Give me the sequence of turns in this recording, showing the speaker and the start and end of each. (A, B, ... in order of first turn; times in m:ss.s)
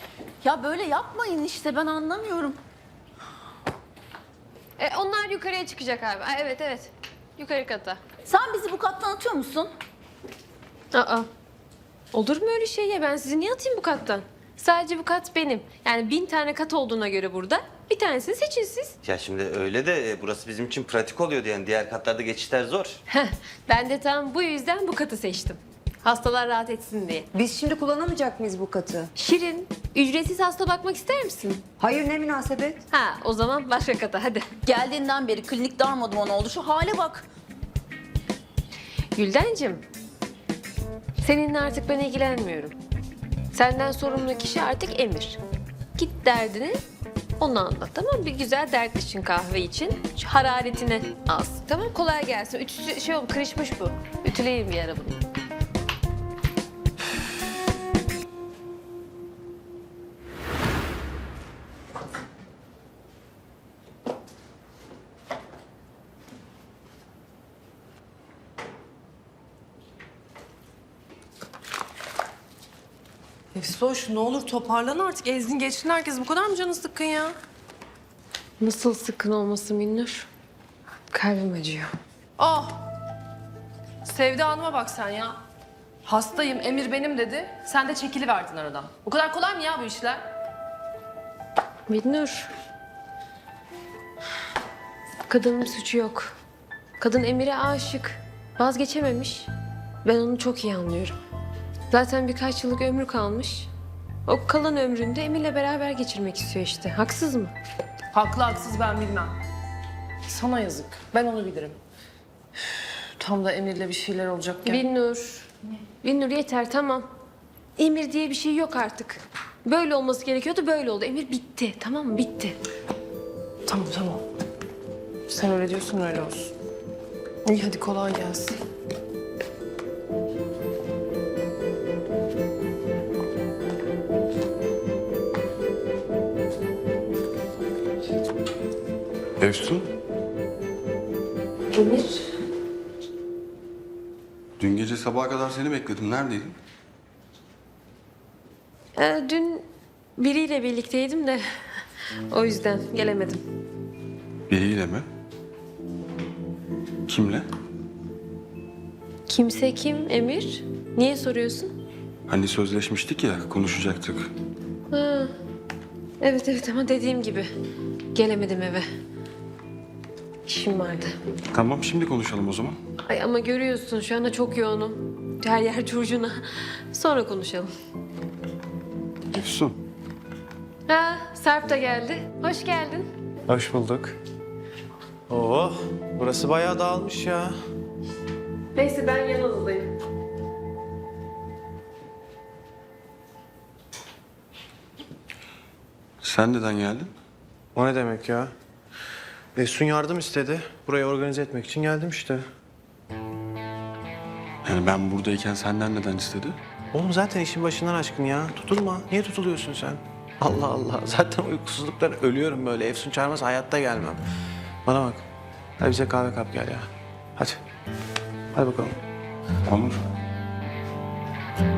0:00.4-0:02.6 A
0:04.8-0:08.0 B
0:08.3-0:09.7 A
0:10.9-0:11.3 B
0:12.1-0:19.0 B
0:19.0-0:23.0 C
0:23.1-0:27.3 B
0:27.3-0:29.1 D
0:29.2-0:31.6 B
0:31.8-0:32.8 D
0:32.9-0:34.5 B
0:34.7-0:37.3 A
0:39.2-0:39.8 B
0:41.2-0:42.8 B
0:43.5-0:45.4 B
0:46.0-0:46.8 B
0:47.4-0:55.2 B
1:13.6-1:17.3 E
1:18.6-1:20.3 B
1:21.1-1:21.9 B
1:22.4-1:22.7 E
1:24.0-1:25.4 E
1:26.1-1:30.2 E
1:31.9-1:32.5 B
1:35.3-1:36.3 B
1:37.0-1:39.5 B
1:40.0-1:41.2 B
1:41.9-1:43.7 B
1:44.3-1:47.5 B
1:48.1-1:49.3 E
1:50.3-1:51.8 E
1:53.2-1:54.8 E
1:54.6-1:55.5 B
1:56.0-1:57.1 B
1:57.8-2:02.6 B
2:03.7-2:04.2 E
2:05.3-2:06.5 E
2:07.5-2:08.6 E
2:19.4-2:19.9 F
2:21.7-2:22.2 B
2:24.6-2:26.6 F
2:29.0-2:29.6 B
2:30.2-2:31.4 B
2:32.3-2:33.4 B
2:34.5-2:35.0 F
2:37.1-2:37.5 F
2:39.3-2:41.7 B
2:42.3-2:44.3 F
2:44.9-2:45.3 B
2:46.2-2:47.5 B
2:48.1-2:48.8 B
2:50.5-2:51.1 B
2:51.5-2:52.8 F
2:53.1-2:56.3 B
2:56.9-2:57.7 B
2:59.3-2:59.8 F
3:00.9-3:03.1 B
3:03.5-3:04.2 G
3:05.3-3:07.5 G
3:08.8-3:09.9 B
3:16.2-3:17.1 F
3:17.8-3:18.5 G
3:19.6-3:22.4 G
3:24.6-3:26.6 F
3:26.9-3:34.2 G
3:34.9-3:35.2 G
3:35.8-3:37.6 G
3:38.5-3:39.0 G
3:39.7-3:40.0 F